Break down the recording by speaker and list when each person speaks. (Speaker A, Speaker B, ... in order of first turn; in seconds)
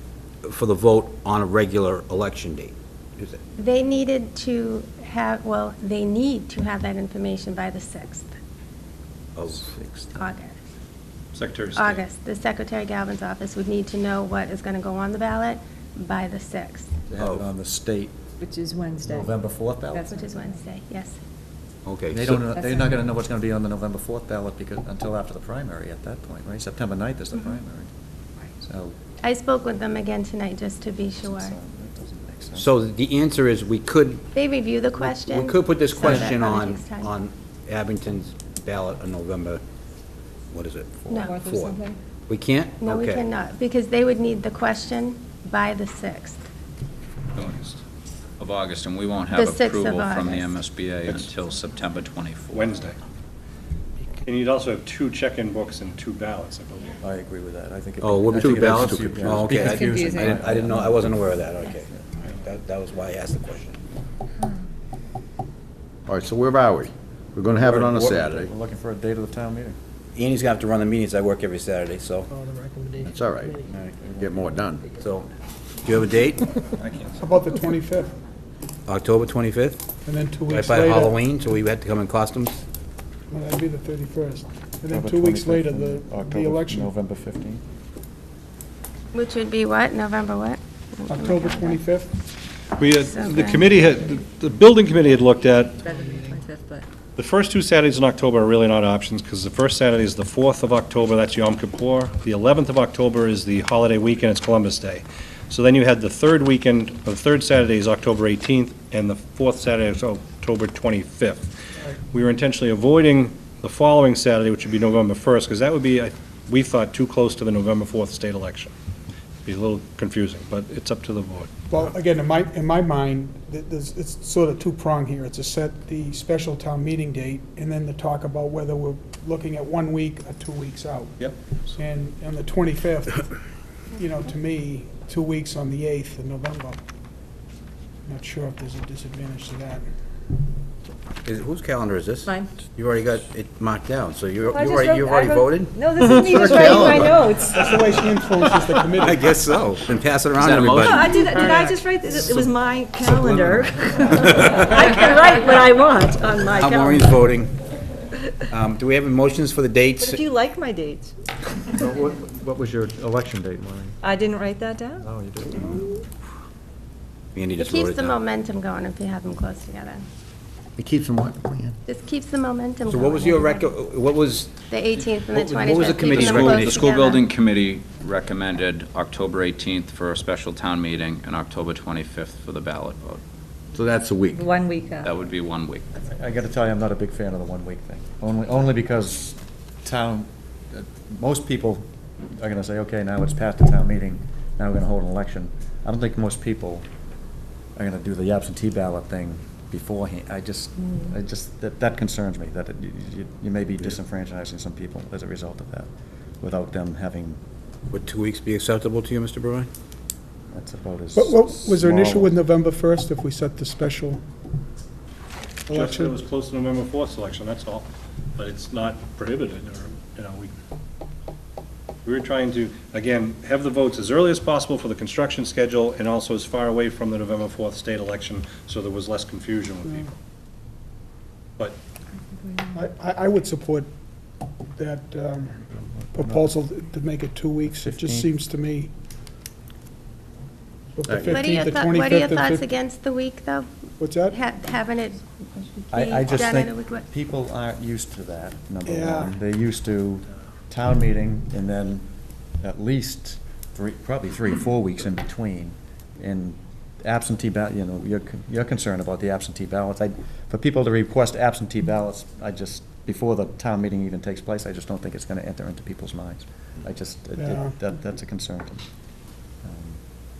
Speaker A: 0.4-3.4, 9.4-10.2, 17.2-17.5, 21.8-22.5, 32.5-34.2, 35.0-39.6, 40.5-43.2, 58.0-63.8, 70.2-72.3, 75.0-75.3, 75.8-76.5, 78.9-79.8, 80.5-82.6, 141.2-151.3, 154.1-155.0, 156.4-157.5, 158.5-160.2, 167.3-168.2, 172.9-174.5, 175.3-176.9, 207.9-209.7
Speaker B: 3.6-8.3, 10.1-10.6, 11.7-16.9, 20.1-21.2, 29.2-31.6, 34.3-37.1, 41.1-41.4, 42.8-46.4, 49.3-50.6, 89.1-91.8, 92.9-93.7, 167.6-170.0, 171.9-173.7, 174.7-177.2, 241.2-243.7, 244.2-247.0
Speaker C: 11.3-12.0, 52.5-53.0, 54.2-57.0, 92.8-95.8, 97.2-111.5, 112.1-118.7, 119.4-121.5, 215.7-220.5, 222.0-230.1
Speaker D: 17.1-18.1, 19.0-20.2, 22.1-27.9, 28.6-28.9, 31.2-32.7, 36.0-36.3, 57.0-61.7, 67.5-69.8, 73.7-74.3, 84.9-87.6, 153.1-153.6, 161.7-164.1, 164.9-166.0, 186.0-196.8, 197.8-205.9, 206.4-207.4, 210.5-212.4, 236.1-236.5, 237.7-238.3, 245.9-252.1, 252.6-268.8, 269.6-270.0
Speaker E: 18.4-19.4, 19.9-20.6, 22.4-23.1, 41.2-42.0, 59.5-60.4, 95.8-96.8, 144.4-147.8, 150.8-157.1, 160.0-161.1, 164.0-165.1, 184.3-185.1, 232.3-232.9
Speaker F: 47.4-47.8, 48.4-52.9, 150.3-151.8, 176.0-183.2, 185.0-185.9
Speaker G: 58.4-59.3, 66.1-68.5, 73.0-74.8, 170.8-171.8, 183.7-184.6, 241.0-241.6
Speaker H: 72.3-73.1, 77.2-78.1, 80.0-81.2, 83.3-86.9, 91.1-92.1, 121.7-131.1, 131.8-133.2, 133.9-136.8, 138.1-139.9, 147.5-149.3, 211.1-214.2, 215.7-216.1, 232.8-233.9, 234.8-235.6, 236.1-238.9, 241.0-242.6, 244.0-244.3, 248.8-249.3, 267.4-267.7